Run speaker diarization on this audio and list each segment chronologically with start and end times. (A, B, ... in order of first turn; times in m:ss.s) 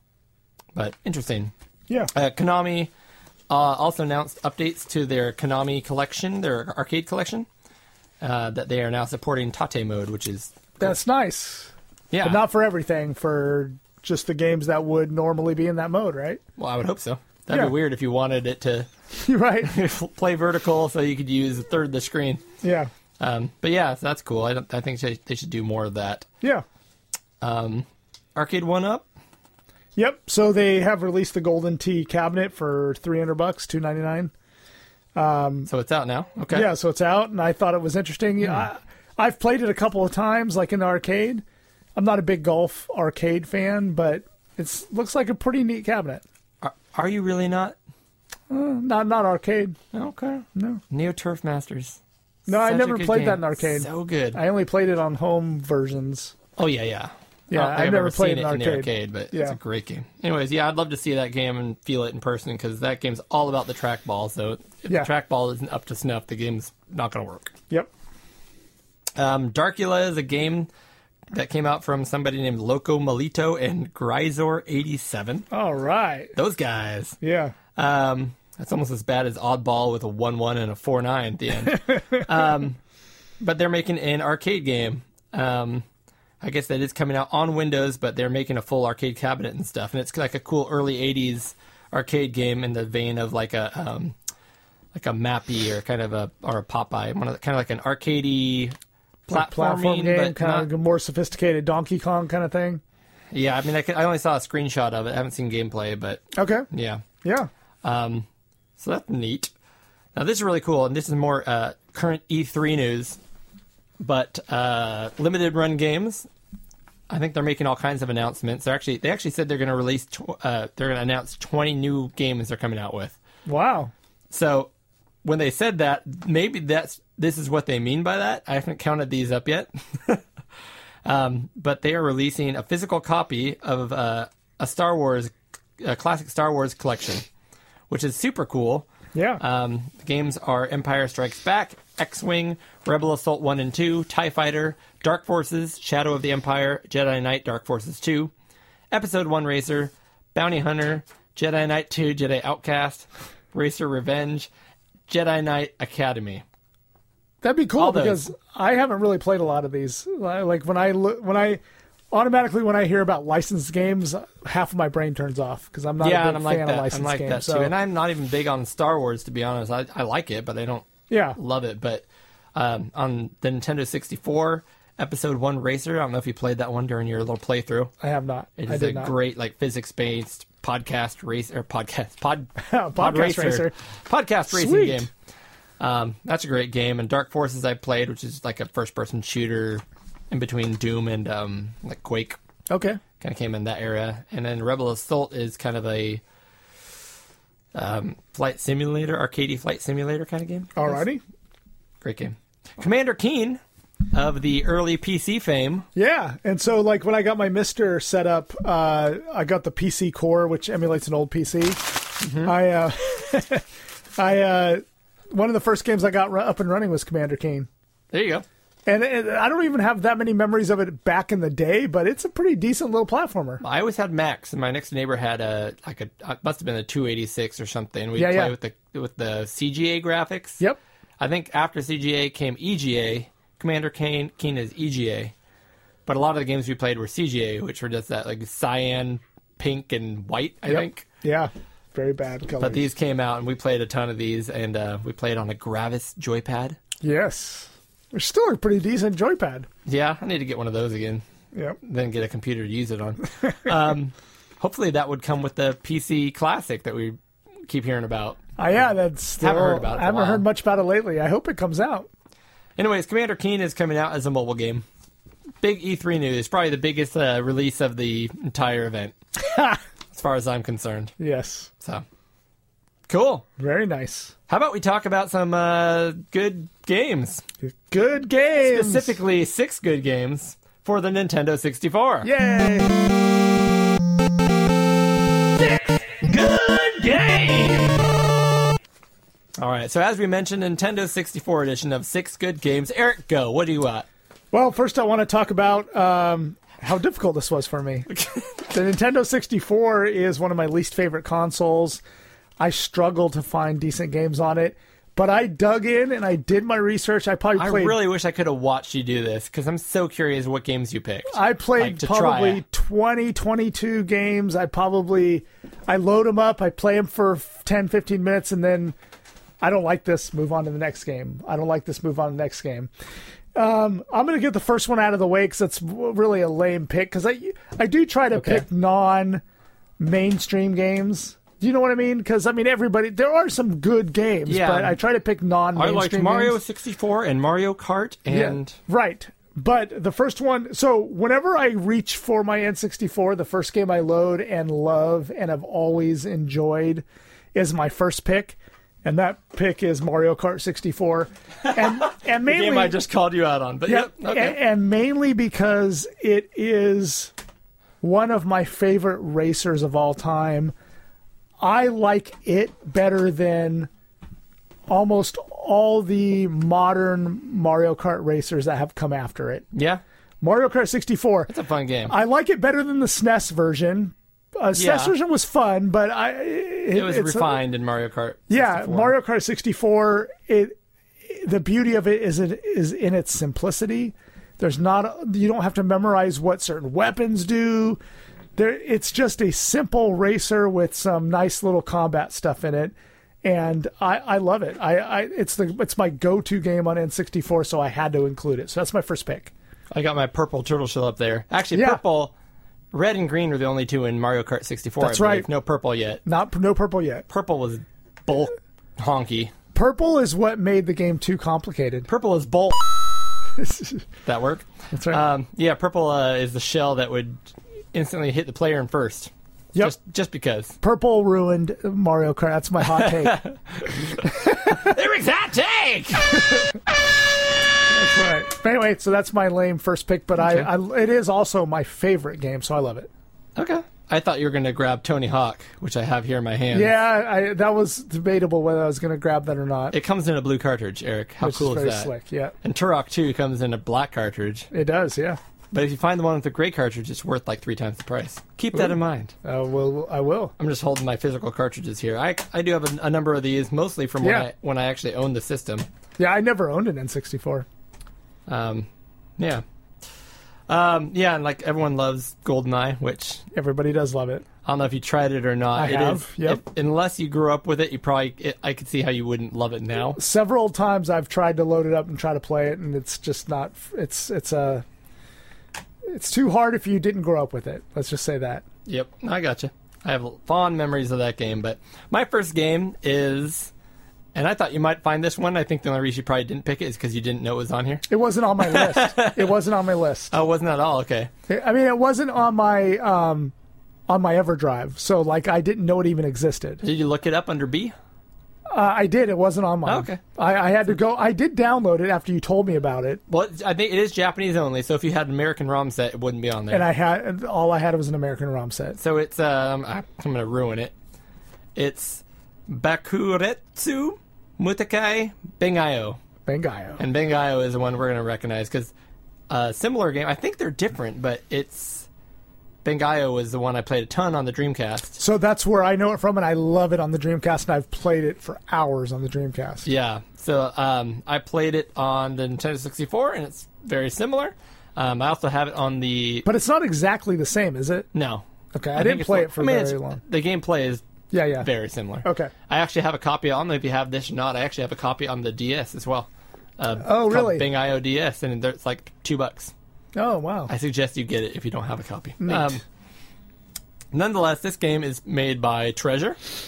0:00.7-0:01.5 A
0:02.1-0:02.9 A
0:03.5-0:07.5 A
0:08.2-0:11.0 A
0:10.8-0:16.4 B
0:12.1-0:12.4 A
0:16.6-0:18.9 A
0:19.1-0:19.7 B
0:19.6-0:22.4 A
0:22.6-0:22.9 B
0:23.2-0:26.3 A
0:27.4-0:29.1 A
0:30.0-0:34.3 B
0:35.1-0:35.7 B
0:35.7-0:36.7 A
0:36.5-0:41.4 B
0:42.0-0:46.2 B
0:46.6-0:47.8 A
0:48.5-0:49.8 B
0:49.9-0:54.4 A
0:50.5-0:50.8 B
0:52.5-0:56.3 B
0:56.6-1:07.5 A
0:57.5-0:59.6 B
1:09.2-1:10.7 A
1:11.3-1:15.4 A
1:15.5-1:16.3 B
1:16.3-1:17.2 A
1:17.2-1:17.5 B
1:17.8-1:22.8 A
1:21.7-1:22.2 B
1:23.4-1:25.8 A
1:26.4-1:34.2 A
1:34.9-1:38.7 A
1:39.2-1:40.7 A
1:39.3-1:42.8 B
1:43.3-1:47.0 A
1:46.3-1:46.7 B
1:47.2-1:47.5 B
1:47.8-1:48.3 A
1:48.8-1:49.5 A
1:50.1-1:53.2 A
1:54.0-1:56.3 A
1:57.1-2:03.2 A
2:03.4-2:03.9 B
2:04.3-2:04.7 A
2:05.2-2:10.2 A
2:11.0-2:17.2 A
2:17.9-2:28.3 A
2:19.1-2:19.4 B
2:28.9-2:34.5 A
2:35.1-2:36.4 A
2:37.4-2:47.7 B
2:37.8-2:38.3 A
2:46.0-2:57.9 A
2:51.1-2:51.4 B
2:58.0-2:59.1 B
2:58.6-3:05.1 A
3:02.6-3:03.7 B
3:04.5-3:05.1 B
3:05.8-3:12.4 A
3:12.7-3:13.0 B
3:13.2-3:16.2 A
3:17.7-3:21.0 A
3:20.8-3:21.2 B
3:22.0-3:25.9 A
3:25.9-3:37.7 B
3:32.2-3:32.5 A
3:38.1-3:38.4 A
3:38.8-3:43.6 B
3:43.6-3:50.6 A
3:48.2-3:48.5 B
3:51.2-3:55.3 A
3:56.0-4:01.0 A
4:00.7-4:02.9 B
4:02.6-4:06.8 A
4:07.0-4:09.7 B
4:09.8-4:11.2 A
4:11.5-4:11.8 B
4:11.8-4:18.4 A
4:18.6-4:22.1 B
4:19.4-4:20.4 A
4:22.8-4:24.8 A
4:25.6-4:29.1 A
4:29.4-4:29.8 B
4:30.1-4:31.1 A
4:31.2-4:31.7 B
4:33.1-4:33.4 A
4:33.6-4:34.3 B
4:34.5-4:37.4 A
4:37.6-4:39.2 B
4:38.6-4:42.3 A
4:42.2-4:43.1 B
4:45.6-4:48.1 A
4:49.6-4:54.0 A
4:54.5-4:58.1 B
4:58.1-4:58.6 A
4:58.7-5:02.0 B
5:02.6-5:07.9 B
5:07.5-5:12.6 A
5:11.3-5:19.0 B
5:19.6-5:22.9 B
5:23.5-5:29.4 B
5:28.4-5:28.6 A
5:30.0-5:36.6 B
5:34.4-5:35.0 A
5:35.7-5:38.8 A
5:38.3-5:53.0 B
5:51.7-5:54.6 A
5:53.9-5:57.3 B
5:58.0-6:00.7 B
6:01.6-6:03.9 B
6:04.9-6:09.6 B
6:09.7-6:10.0 A
6:10.4-6:11.5 B
6:11.5-6:12.1 A
6:12.1-6:17.6 B
6:14.7-6:15.1 A
6:16.9-6:19.2 A
6:18.5-6:28.0 B
6:28.6-6:39.5 B
6:39.9-6:42.3 A
6:41.7-6:42.0 B
6:42.9-6:46.2 A
6:45.0-6:45.5 B
6:46.2-6:47.2 B
6:47.3-6:49.5 A
6:49.7-6:52.1 B
6:52.1-6:53.0 A
6:53.6-6:54.0 B
6:54.2-7:00.8 A
6:54.9-6:55.2 B
7:00.8-7:03.4 B
7:02.9-7:06.7 A
7:04.2-7:04.9 B
7:07.9-7:13.1 B
7:10.4-7:10.7 A
7:13.6-7:17.0 A
7:16.7-7:19.9 B
7:19.9-7:24.7 A
7:21.4-7:22.5 B
7:24.7-7:25.4 B
7:25.7-7:29.3 A
7:28.7-7:30.5 B
7:30.6-7:35.8 A
7:34.2-7:34.5 B
7:36.2-7:37.6 B
7:38.5-7:39.6 A
7:40.7-7:43.4 A
7:43.5-7:44.4 B
7:44.6-7:50.2 A
7:45.7-7:46.6 B
7:50.2-7:54.8 B
7:56.0-7:58.6 B
7:58.8-8:03.7 A
8:04.3-8:08.1 A
8:08.1-8:10.3 B
8:08.6-8:09.5 A
8:10.3-8:11.3 A
8:11.5-8:13.5 B
8:14.1-8:16.8 B
8:16.8-8:17.9 A
8:18.7-8:23.2 B
8:19.8-8:20.2 A
8:23.3-8:26.9 A
8:26.7-8:29.0 B
8:29.0-8:30.9 A
8:31.8-8:36.2 A
8:36.4-8:37.0 B
8:37.0-8:38.9 A
8:39.5-8:42.1 A
8:42.8-8:45.2 A
8:45.2-8:49.8 B
8:49.8-8:56.5 A
8:56.4-8:58.1 B
8:58.1-9:06.3 A
8:58.7-9:00.2 B
9:01.3-9:01.7 B
9:02.2-9:02.5 B
9:06.8-9:09.7 A
9:07.0-9:07.6 B
9:10.1-9:10.7 B
9:10.7-9:12.8 A
9:12.4-9:12.7 B
9:14.1-9:16.4 A